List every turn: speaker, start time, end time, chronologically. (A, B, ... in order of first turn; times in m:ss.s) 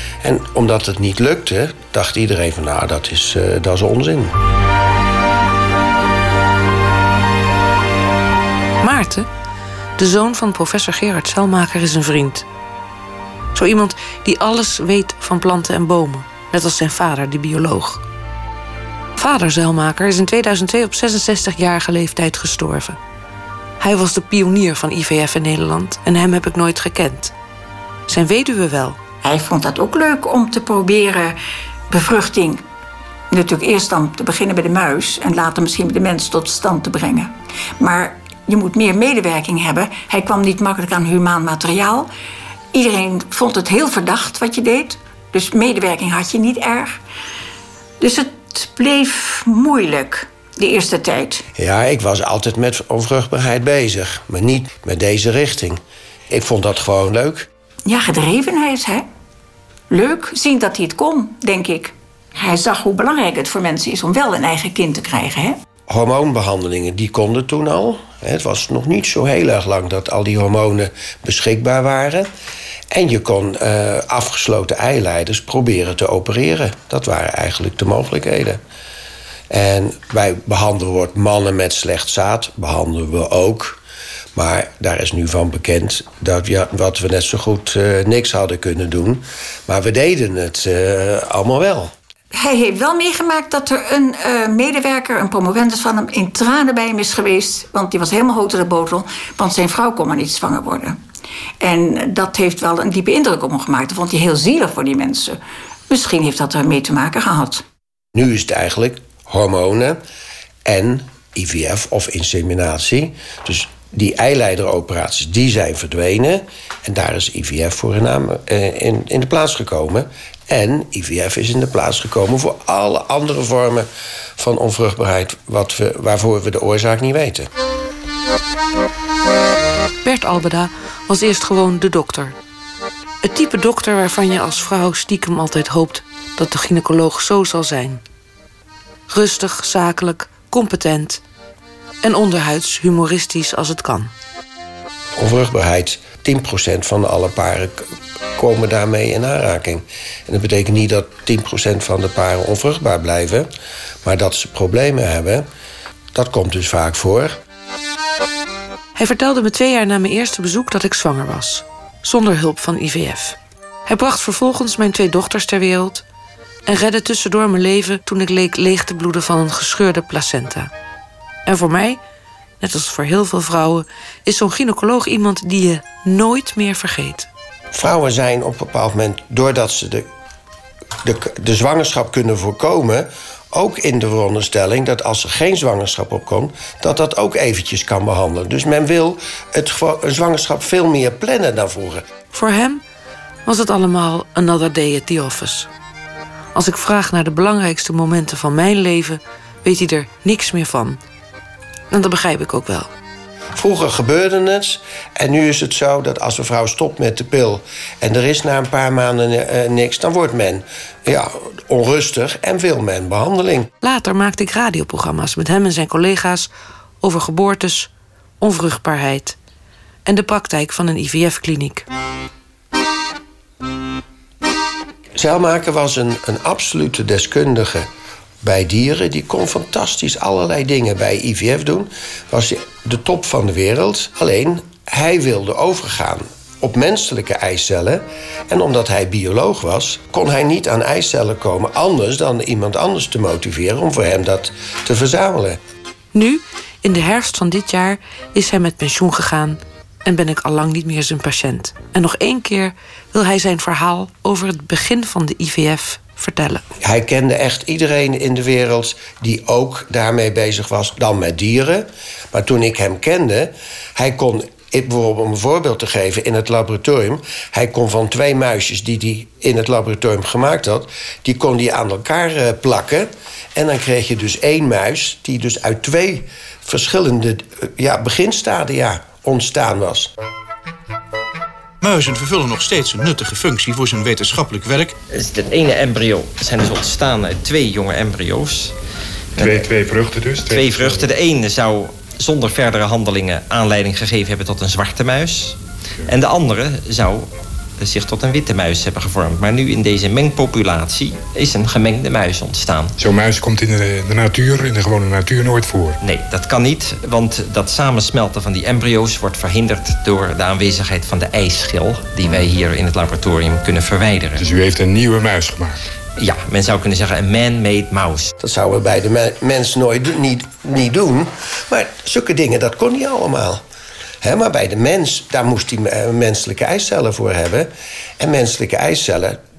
0:00.2-0:04.4 A
0:08.8-0:09.3 B
0:10.0-0:12.5 B
0:13.5-0:18.0 B
0:19.2-0:23.0 B
0:23.8-0:27.3 B
0:28.1-0:29.0 B
0:29.2-0:31.4 C
0:31.9-0:32.6 C
0:33.3-0:42.1 C
0:42.7-0:47.0 C
0:48.0-0:51.4 C
0:51.6-0:57.5 A
0:57.9-0:59.0 C
0:59.9-1:05.6 C
1:05.9-1:12.3 A
1:12.9-1:18.6 A
1:19.5-1:23.8 A
1:24.4-1:31.9 A
1:32.3-1:41.0 C
1:41.6-1:45.4 C
1:45.9-1:47.6 C
1:48.1-1:50.0 A
1:50.7-2:07.5 A
2:10.0-2:12.4 B
2:13.2-2:18.0 B
2:19.1-2:21.2 B
2:22.0-2:24.1 B
2:25.2-2:27.8 A
2:28.4-2:33.5 A
2:34.0-2:35.5 A
2:36.1-2:37.4 A
2:39.0-2:46.0 B
2:46.7-2:50.7 B
2:51.5-2:52.0 B
2:52.6-2:57.3 B
2:57.7-3:00.1 A
3:01.0-3:12.0 A
3:12.3-3:12.8 B
3:13.5-3:15.7 B
3:16.5-3:21.0 B
3:21.9-3:22.9 B
3:23.6-3:33.7 A
3:33.8-3:36.5 B
3:37.0-3:39.4 B
3:40.1-3:41.9 B
3:45.2-3:47.9 A
3:48.4-4:05.6 A
4:06.1-4:16.6 B
4:16.8-4:40.1 A
4:41.8-4:45.0 D
4:45.1-4:48.7 E
4:49.4-4:49.7 E
4:49.4-4:51.1 F
4:50.4-5:03.0 E
5:03.0-5:06.0 F
5:06.0-5:14.4 E
5:14.4-5:15.8 F
5:16.2-5:18.3 E
5:18.4-5:23.6 A
5:24.2-5:29.4 A